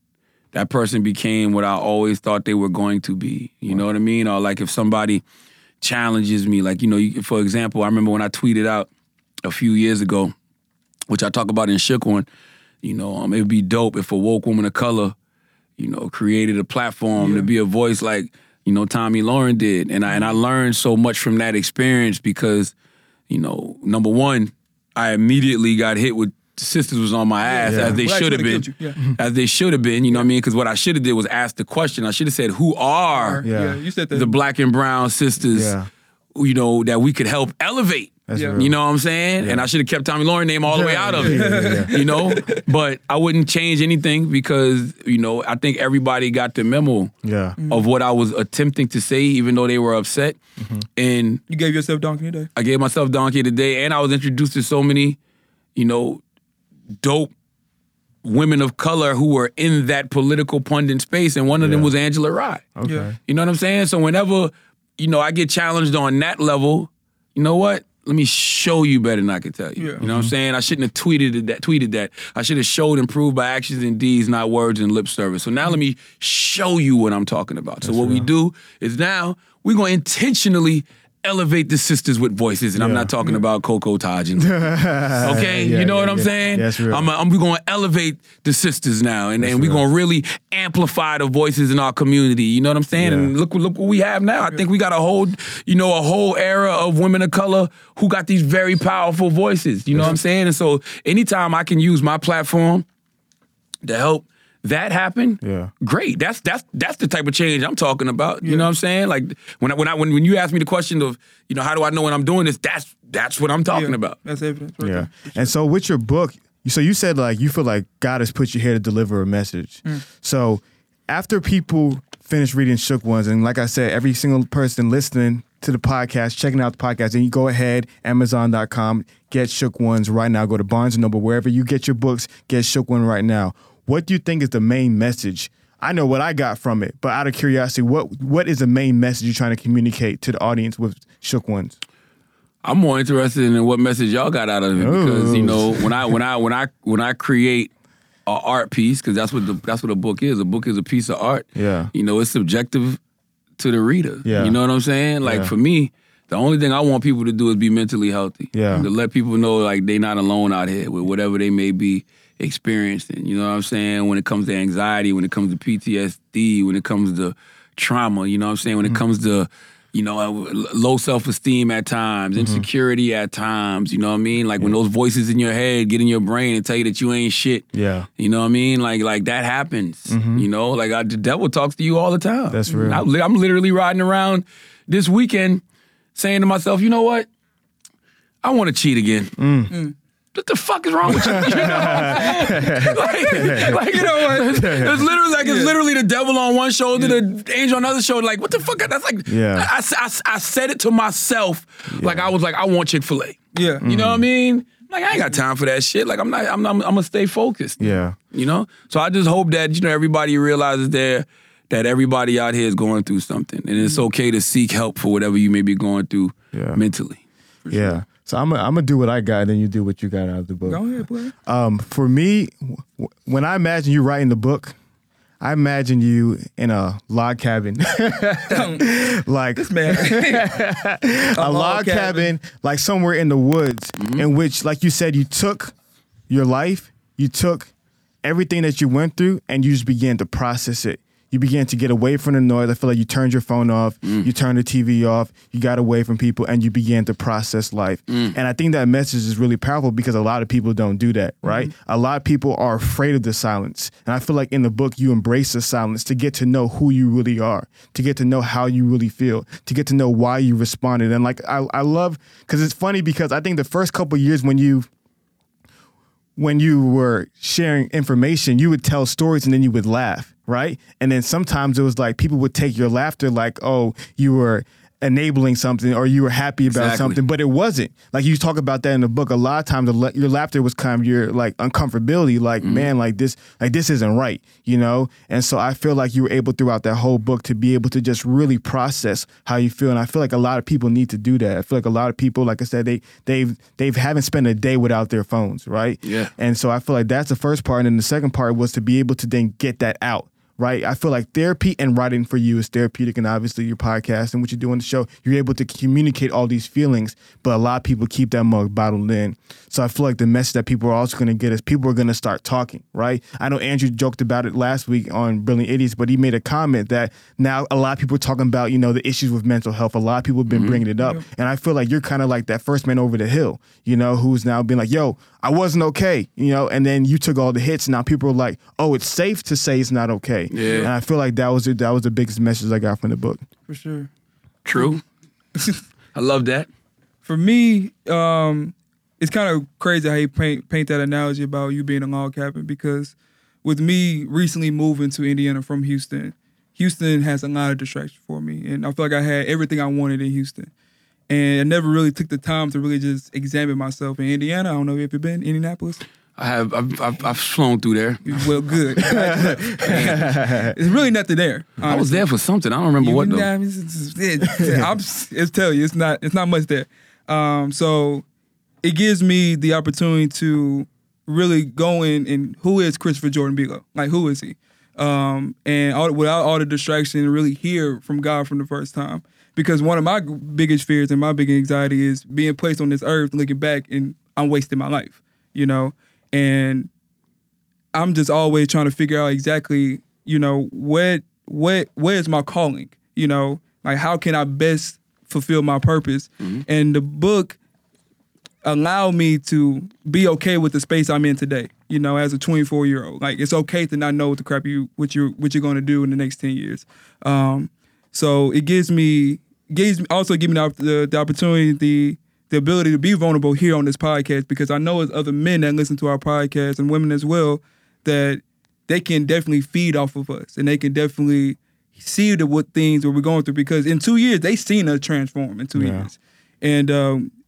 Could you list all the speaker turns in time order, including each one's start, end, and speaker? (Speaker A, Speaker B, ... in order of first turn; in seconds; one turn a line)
Speaker A: 0.5-5.2
Speaker A: 5.8-8.9
Speaker A: 9.4-10.3
Speaker A: 11.1-12.3
Speaker A: 12.8-15.1
Speaker A: 15.8-22.7
Speaker B: 17.2-17.5
Speaker A: 23.3-33.5
Speaker B: 27.4-29.0
Speaker C: 27.6-28.0
Speaker B: 33.1-34.3
Speaker C: 33.4-33.8
Speaker A: 34.1-35.7
Speaker C: 35.4-35.9
Speaker A: 36.3-47.1
Speaker C: 38.3-38.8
Speaker B: 38.3-38.6
Speaker C: 39.4-39.7
Speaker B: 40.7-42.6
Speaker C: 41.0-41.9
Speaker C: 47.2-47.6
Speaker B: 47.6-47.8
Speaker A: 47.7-50.4
Speaker C: 50.6-50.8
Speaker A: 51.0-51.4
Speaker B: 51.5-52.5
Speaker A: 52.5-55.2
Speaker A: 55.8-56.2
Speaker A: 57.0-57.3
Speaker A: 58.2-84.6
Speaker C: 61.6-61.9
Speaker C: 62.8-63.2
Speaker B: 62.8-63.1
Speaker C: 70.0-70.3
Speaker C: 77.8-78.3
Speaker C: 82.8-83.1
Speaker C: 84.4-87.1
Speaker A: 85.2-102.8
Speaker C: 89.4-89.8
Speaker C: 93.0-93.3
Speaker C: 99.9-100.2
Speaker A: 103.8-114.2
Speaker C: 105.4-105.7
Speaker B: 108.4-108.7
Speaker B: 113.7-115.5
Speaker C: 114.8-141.8
Speaker A: 142.6-147.7
Speaker C: 144.8-146.1
Speaker A: 148.2-153.0
Speaker C: 151.6-151.9
Speaker A: 153.6-177.7
Speaker C: 154.2-154.6
Speaker C: 155.2-155.5
Speaker C: 158.5-158.9
Speaker C: 172.3-172.7
Speaker C: 177.7-178.1
Speaker A: 178.2-185.6
Speaker C: 180.1-180.5
Speaker C: 182.5-183.0
Speaker B: 182.7-183.0
Speaker A: 186.1-187.3
Speaker A: 188.4-189.3
Speaker C: 189.4-189.7
Speaker B: 189.7-189.9
Speaker A: 190.3-217.2
Speaker C: 191.1-193.8
Speaker B: 191.2-194.7
Speaker C: 194.4-195.1
Speaker B: 195.4-195.8
Speaker B: 196.9-197.2
Speaker C: 199.3-199.7
Speaker C: 201.9-202.3
Speaker B: 203.5-203.8
Speaker C: 203.8-204.2
Speaker C: 207.8-208.2
Speaker C: 216.5-216.8
Speaker B: 217.6-218.0
Speaker C: 217.7-220.9
Speaker B: 220.7-221.3
Speaker C: 221.4-224.8
Speaker C: 225.4-235.7
Speaker B: 228.5-228.9
Speaker B: 229.6-230.6
Speaker B: 231.3-232.3
Speaker A: 234.0-234.3
Speaker C: 236.3-237.7
Speaker C: 238.2-264.9
Speaker A: 248.1-248.3
Speaker B: 251.4-251.7
Speaker C: 266.4-333.4
Speaker A: 276.7-277.2
Speaker A: 282.6-282.9
Speaker A: 296.0-296.3
Speaker A: 320.5-320.8
Speaker A: 330.5-330.9
Speaker B: 330.6-330.9
Speaker B: 333.7-334.1
Speaker A: 334.6-335.0
Speaker B: 335.6-335.8
Speaker A: 336.1-336.7
Speaker B: 337.2-350.7
Speaker B: 351.3-356.0
Speaker A: 356.4-358.5
Speaker B: 358.2-362.2
Speaker C: 359.0-360.8
Speaker A: 359.8-360.3
Speaker A: 361.8-363.5
Speaker B: 363.0-368.2
Speaker C: 364.5-364.9
Speaker B: 368.8-386.9
Speaker B: 387.9-397.6
Speaker B: 398.6-427.3
Speaker C: 425.7-426.1